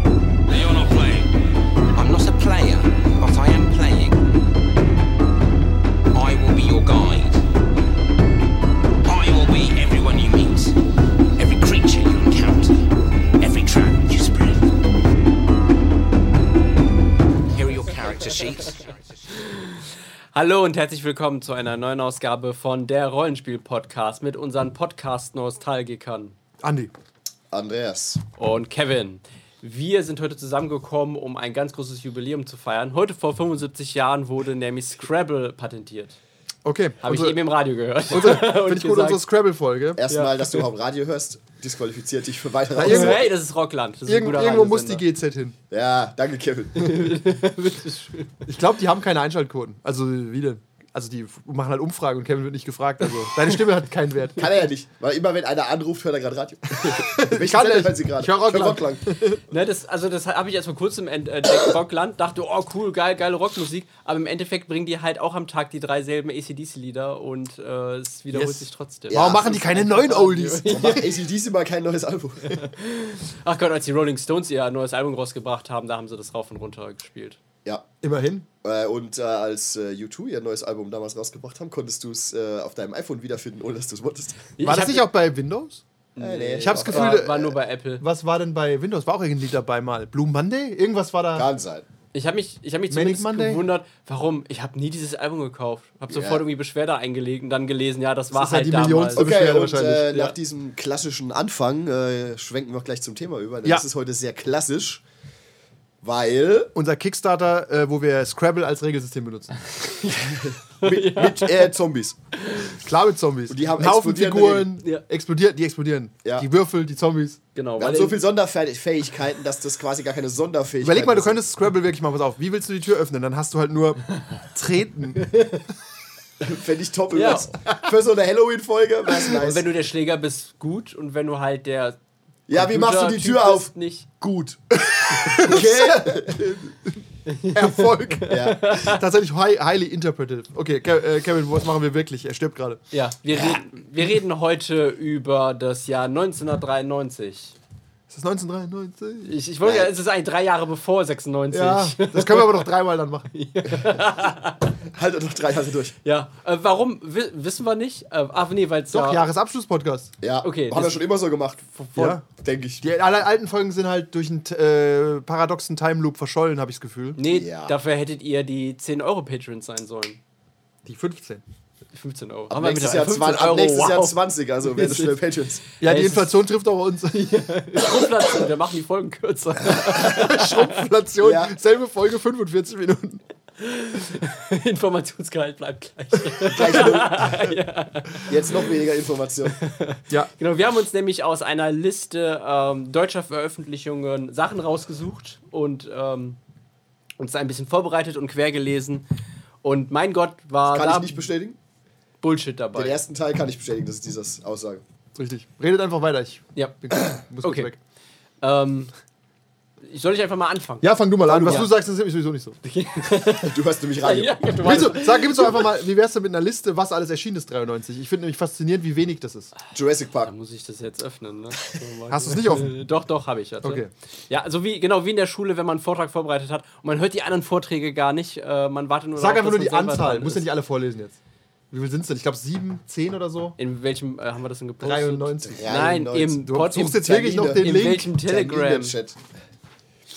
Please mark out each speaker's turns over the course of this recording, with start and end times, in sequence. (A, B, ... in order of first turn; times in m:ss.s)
0:00.5-0:01.3 A
0:01.9-0:04.3 A
0:06.1-0:07.4 A
0:09.1-0:10.8 A
0:11.4-0:12.8 A
0:13.4-0:14.7 A
0:17.5-0:18.9 A
0:19.5-0:19.8 B
0:20.3-0:26.4 B
0:26.6-0:26.9 C
0:27.5-0:28.2 D
0:28.4-0:36.2 B
0:36.6-0:37.4 C
0:37.0-0:39.2 B
0:38.1-0:40.0 C
0:40.0-0:43.3 D
0:40.1-0:40.6 B
0:42.8-0:43.2 C
0:42.8-0:45.0 B
0:44.1-0:45.6 C
0:45.7-0:47.3 D
0:46.8-0:48.4 B
0:48.5-0:54.4 C
0:54.4-0:59.1 D
0:56.8-0:59.4 C
0:59.5-1:11.1 B
1:08.3-1:11.0 C
1:09.1-1:09.8 D
1:10.7-1:12.7 D
1:12.5-1:17.4 B
1:18.0-1:18.5 C
1:18.6-1:24.5 D
1:24.6-1:25.1 B
1:24.6-1:25.8 C
1:26.2-1:28.0 B
1:26.2-1:27.4 D
1:26.6-1:31.5 C
1:31.4-1:31.9 D
1:32.1-1:39.3 B
1:32.9-1:33.6 C
1:36.1-1:36.4 D
1:38.3-1:40.2 C
1:39.2-1:45.0 D
1:46.0-1:46.7 D
1:46.8-1:49.5 C
1:50.0-1:51.7 B
1:50.1-1:52.2 D
1:52.4-1:52.8 B
1:52.8-1:57.4 C
1:53.5-1:54.7 D
1:57.6-1:58.2 B
1:57.8-2:01.4 D
2:00.8-2:05.3 C
2:05.3-2:05.6 B
2:06.4-2:09.7 D
2:07.1-2:07.5 B
2:09.4-2:12.0 B
2:12.5-2:16.5 D
2:12.5-2:14.1 B
2:15.2-2:16.8 C
2:17.3-2:19.0 B
2:17.5-2:22.8 C
2:18.3-2:18.8 D
2:22.9-2:27.6 B
2:28.1-2:29.3 C
2:29.3-2:32.7 B
2:29.6-2:29.9 D
2:31.5-2:33.3 C
2:33.3-2:34.8 B
2:34.9-2:36.0 D
2:36.0-2:39.3 B
2:38.9-2:40.1 C
2:40.2-2:42.9 D
2:40.4-2:41.0 B
2:41.8-2:42.2 B
2:42.0-2:42.2 C
2:42.8-2:47.2 C
2:47.2-2:50.2 B
2:47.3-2:47.8 D
2:50.8-2:51.4 C
2:51.9-2:54.2 B
2:52.5-2:55.6 D
2:54.7-2:55.1 B
2:55.8-2:56.3 B
2:55.8-2:57.5 C
2:57.1-3:00.8 B
2:59.7-3:03.2 C
3:01.2-3:01.5 D
3:03.6-3:08.7 B
3:06.5-3:07.5 D
3:08.2-3:09.6 D
3:09.5-3:16.4 B
3:17.2-3:19.1 B
3:19.6-3:21.2 B
3:20.7-3:21.6 D
3:22.2-3:23.0 B
3:22.7-3:24.8 D
3:25.2-3:27.8 C
3:26.6-3:27.7 B
3:28.4-3:28.9 B
3:29.9-3:30.9 B
3:30.8-3:32.6 C
3:31.3-3:31.7 D
3:32.6-3:35.4 B
3:33.3-3:35.7 D
3:34.6-3:39.5 C
3:39.7-3:40.3 D
3:40.2-3:50.5 B
3:42.1-3:42.8 C
3:43.6-3:43.9 C
3:49.2-3:51.2 C
3:51.7-3:53.6 C
3:53.6-3:59.0 B
3:54.8-3:55.7 C
3:55.5-3:59.2 D
3:56.4-3:58.1 C